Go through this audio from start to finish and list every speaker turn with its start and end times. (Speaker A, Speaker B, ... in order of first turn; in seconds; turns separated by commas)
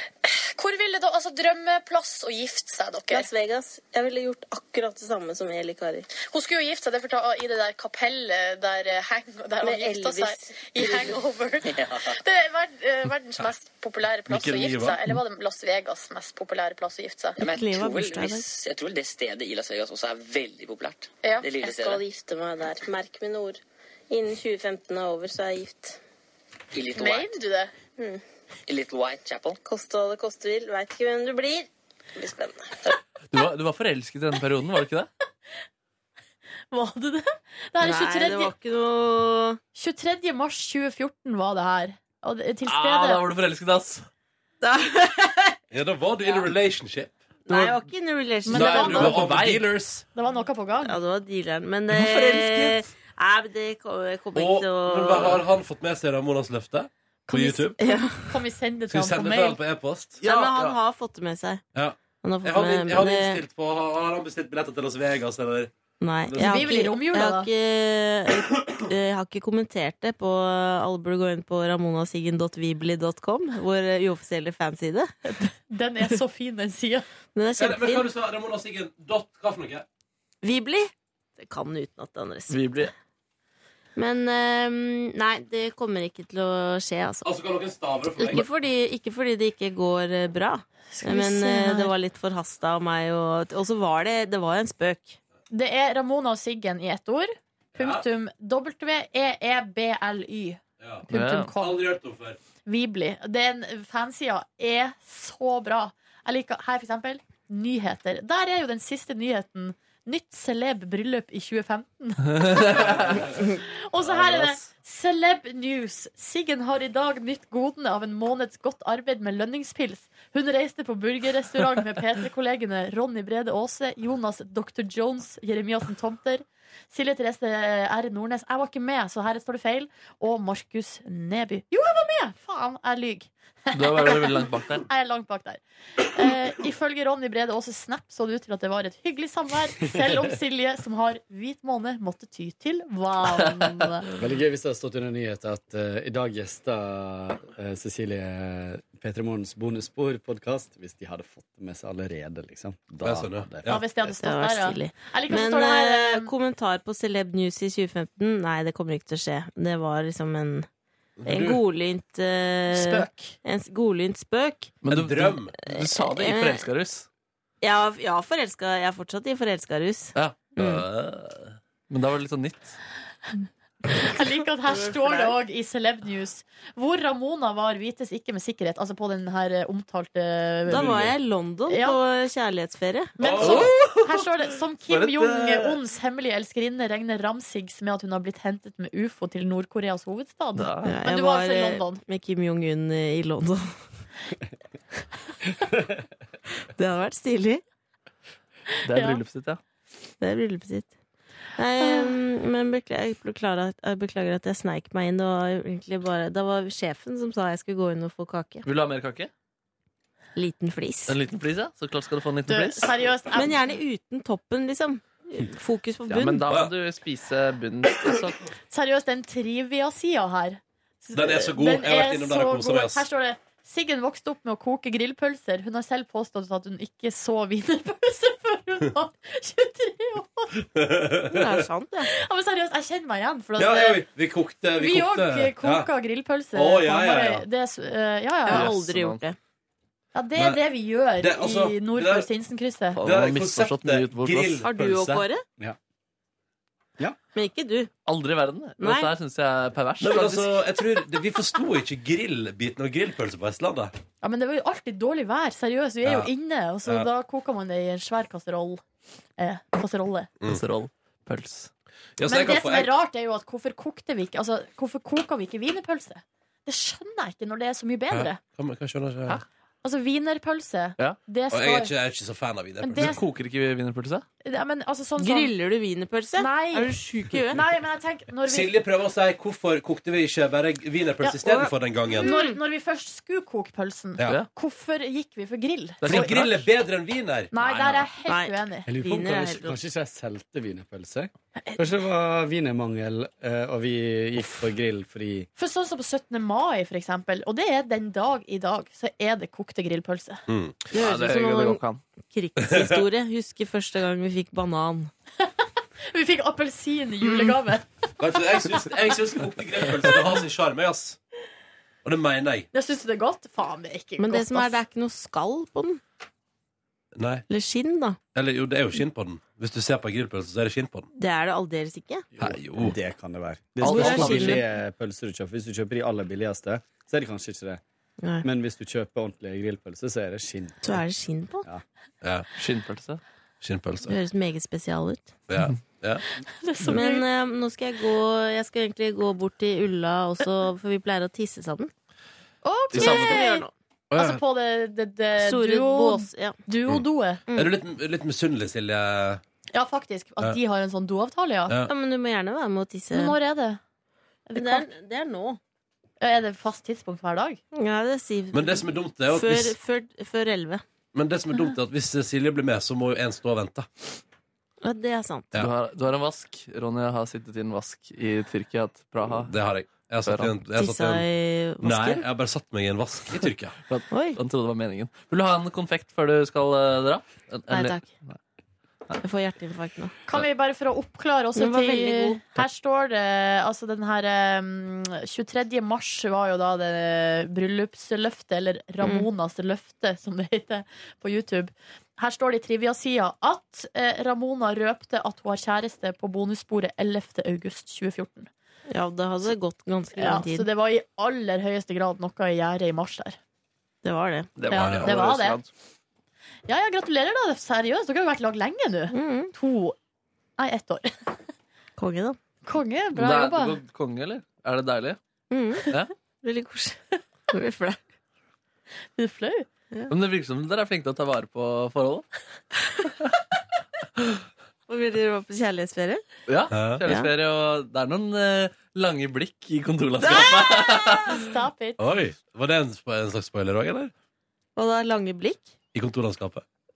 Speaker A: 0.6-3.3, Speaker B: 3.1-6.1, Speaker A: 6.2-17.4, Speaker B: 9.6-11.2, Speaker C: 11.7-12.1, Speaker D: 14.3-15.0, Speaker C: 17.4-22.0, Speaker B: 17.4-18.5, Speaker A: 21.2-21.5, Speaker B: 21.6-26.0, Speaker C: 26.7-27.3, Speaker A: 26.9-27.7, Speaker B: 28.0-28.2, Speaker C: 28.7-29.6, Speaker B: 29.6-32.7, Speaker E: 33.3-35.1, Speaker A: 36.7-38.5, Speaker B: 37.8-39.6, Speaker A: 39.8-43.2, Speaker E: 42.7-44.1, Speaker B: 44.6-45.6, Speaker D: 45.7-47.1, Speaker B: 47.5-49.1, Speaker E: 47.5-47.8, Speaker A: 48.5-49.2, Speaker D: 48.5-50.0, Speaker E: 48.8-49.6, Speaker A: 50.1-51.0, Speaker B: 50.8-55.4, Speaker E: 51.9-52.8, Speaker D: 54.4-57.8, Speaker A: 57.3-59.6, Speaker B: 57.8-58.4, Speaker D: 58.9-60.7, Speaker B: 60.2-61.6, Speaker D: 61.8-65.7, Speaker B: 62.2-63.4, Speaker B: 66.0-75.2, Speaker D: 66.3-66.6, Speaker A: 66.4-67.5, Speaker A: 75.2-77.1, Speaker B: 77.3-78.1, Speaker D: 77.6-79.8, Speaker B: 80.4-82.8, Speaker E: 82.5-82.9, Speaker B: 84.0-87.3, Speaker D: 87.2-88.5, Speaker B: 88.2-95.2, Speaker A: 90.9-91.9, Speaker A: 95.5-101.8, Speaker D: 97.8-98.0, Speaker E: 101.1-101.5, Speaker D: 101.6-102.4, Speaker A: 102.7-144.1, Speaker E: 112.4-113.2, Speaker D: 112.8-113.4, Speaker E: 133.7-134.9, Speaker F: 144.2-153.7, Speaker D: 153.0-153.8, Speaker A: 153.7-156.3, Speaker B: 154.1-160.7, Speaker D: 161.2-161.6, Speaker B: 161.3-164.8, Speaker E: 164.8-167.1, Speaker D: 164.9-165.5, Speaker B: 165.7-166.7, Speaker B: 167.6-170.1, Speaker E: 170.2-172.8, Speaker D: 170.6-170.9, Speaker A: 173.9-180.9, Speaker B: 174.7-175.4, Speaker B: 180.7-183.1, Speaker D: 180.8-181.1, Speaker A: 181.7-182.0, Speaker A: 183.2-192.0, Speaker D: 183.2-183.8, Speaker E: 183.4-184.1, Speaker E: 184.9-185.8, Speaker E: 190.6-191.0, Speaker B: 190.8-193.8, Speaker B: 196.7-197.6, Speaker E: 198.8-199.6, Speaker A: 198.9-199.2, Speaker B: 200.2-200.9, Speaker B: 201.6-208.7, Speaker A: 201.8-202.1, Speaker E: 208.7-209.3, Speaker B: 210.3-211.2, Speaker E: 211.1-212.9, Speaker A: 212.5-213.6, Speaker B: 213.3-216.5, Speaker E: 216.1-218.4, Speaker A: 218.7-230.6, Speaker D: 221.2-223.1, Speaker D: 230.8-231.6, Speaker B: 231.3-232.1, Speaker A: 232.1-234.0, Speaker D: 233.6-235.9, Speaker A: 234.8-238.7, Speaker D: 236.6-237.4, Speaker B: 238.5-239.4, Speaker E: 238.5-239.2, Speaker A: 240.2-243.0, Speaker D: 241.2-242.3, Speaker E: 242.9-244.7, Speaker D: 243.0-245.2, Speaker B: 244.6-245.4, Speaker B: 247.3-247.9, Speaker E: 248.1-250.6, Speaker B: 248.8-249.1, Speaker D: 250.0-253.9, Speaker A: 254.2-258.8, Speaker D: 256.0-256.3, Speaker A: 259.4-260.3, Speaker E: 260.5-261.7, Speaker D: 262.2-262.9, Speaker A: 262.3-268.4, Speaker D: 268.1-269.4, Speaker A: 269.8-271.9, Speaker D: 271.5-273.2, Speaker A: 272.8-273.2, Speaker E: 273.0-274.3, Speaker A: 274.4-275.5, Speaker B: 275.2-277.6, Speaker A: 276.4-277.0, Speaker E: 277.1-277.4, Speaker A: 277.5-278.7, Speaker D: 278.5-282.3, Speaker A: 281.2-286.4, Speaker B: 281.5-282.6, Speaker E: 286.0-286.6, Speaker D: 286.1-288.1, Speaker A: 287.5-288.9, Speaker B: 288.3-289.8, Speaker F: 288.9-295.5, Speaker A: 295.6-300.4, Speaker D: 300.5-300.8, Speaker B: 300.9-305.1, Speaker E: 301.0-302.0, Speaker D: 302.6-303.0, Speaker A: 306.1-307.9, Speaker D: 308.2-311.2, Speaker A: 308.6-308.9, Speaker D: 312.0-312.7, Speaker A: 312.7-314.8, Speaker B: 314.2-316.0, Speaker D: 317.1-317.4, Speaker B: 317.5-318.2, Speaker D: 318.4-321.1, Speaker B: 321.1-322.3, Speaker F: 322.4-327.8, Speaker D: 322.4-322.9, Speaker B: 323.8-324.6, Speaker E: 323.8-324.6, Speaker B: 328.2-328.5, Speaker F: 328.4-331.0, Speaker B: 330.8-331.7, Speaker E: 332.6-333.2, Speaker D: 333.6-334.1, Speaker B: 334.1-335.3, Speaker D: 335.5-336.2, Speaker A: 336.6-337.2, Speaker B: 336.8-341.9, Speaker A: 342.6-347.4, Speaker E: 342.9-343.4, Speaker B: 342.9-343.7, Speaker D: 344.1-344.4, Speaker B: 345.4-346.6, Speaker B: 347.5-347.7, Speaker D: 347.5-349.4, Speaker A: 349.7-351.8, Speaker B: 351.9-353.4, Speaker A: 353.1-353.8, Speaker A: 354.5-354.9, Speaker B: 354.6-355.6, Speaker A: 356.2-357.6, Speaker B: 357.7-360.8, Speaker D: 358.5-359.8, Speaker D: 361.1-363.9, Speaker B: 364.8-365.5, Speaker E: 365.6-369.5, Speaker D: 369.4-371.2, Speaker E: 370.2-370.6, Speaker B: 370.7-372.2, Speaker D: 371.8-373.8, Speaker E: 373.9-378.4, Speaker B: 374.1-374.4, Speaker B: 377.7-378.1, Speaker B: 379.2-380.1, Speaker A: 380.3-398.5, Speaker B: 381.6-382.4, Speaker B: 389.0-389.3, Speaker B: 398.9-400.7, Speaker A: 400.2-403.4, Speaker B: 404.0-404.5, Speaker E: 404.6-405.7, Speaker A: 404.7-405.6, Speaker D: 404.7-405.2, Speaker A: 406.7-410.0, Speaker B: 409.1-409.5, Speaker A: 410.6-411.4, Speaker B: 412.0-412.4, Speaker A: 412.6-413.8, Speaker E: 413.2-415.2, Speaker B: 415.5-418.0, Speaker A: 419.2-419.7, Speaker E: 420.1-422.3, Speaker B: 424.9-426.2, Speaker E: 426.5-431.4, Speaker D: 426.7-427.0, Speaker B: 427.1-427.3, Speaker B: 430.2-430.5, Speaker A: 430.3-432.0, Speaker D: 432.0-434.1, Speaker B: 434.8-435.7, Speaker D: 435.9-436.6